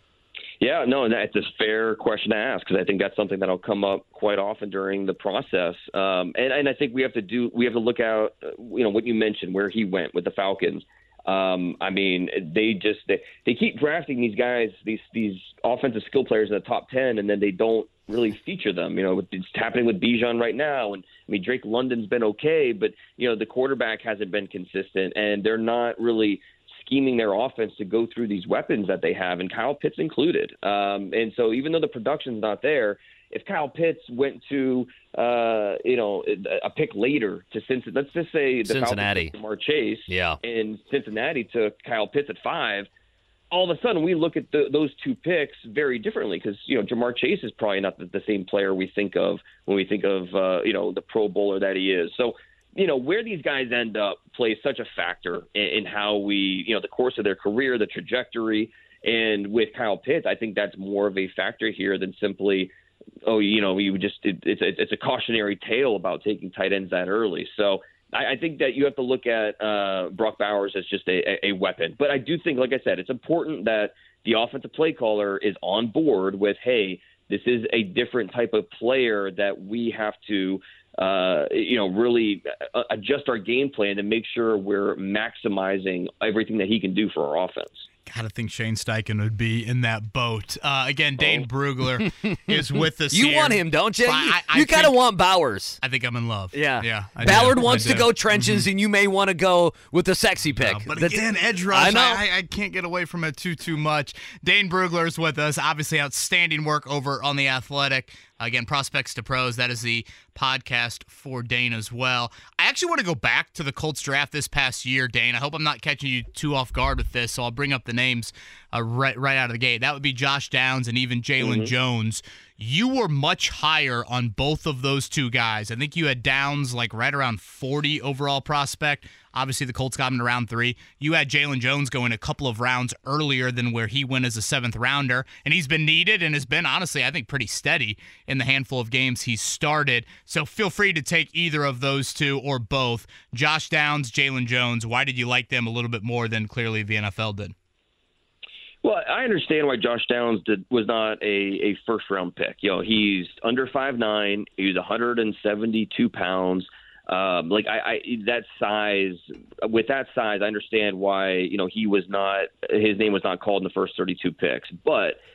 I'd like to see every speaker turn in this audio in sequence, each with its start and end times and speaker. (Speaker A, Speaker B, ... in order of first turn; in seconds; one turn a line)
Speaker A: 0.6-42.9
Speaker B: 38.6-39.3
Speaker B: 40.1-40.4
Speaker A: 43.5-62.7
Speaker A: 63.2-87.8
Speaker C: 88.1-95.0
Speaker B: 93.1-95.8
Speaker C: 95.8-98.7
Speaker B: 96.5-102.2
Speaker C: 100.6-147.5
Speaker A: 121.4-121.7
Speaker A: 148.8-165.2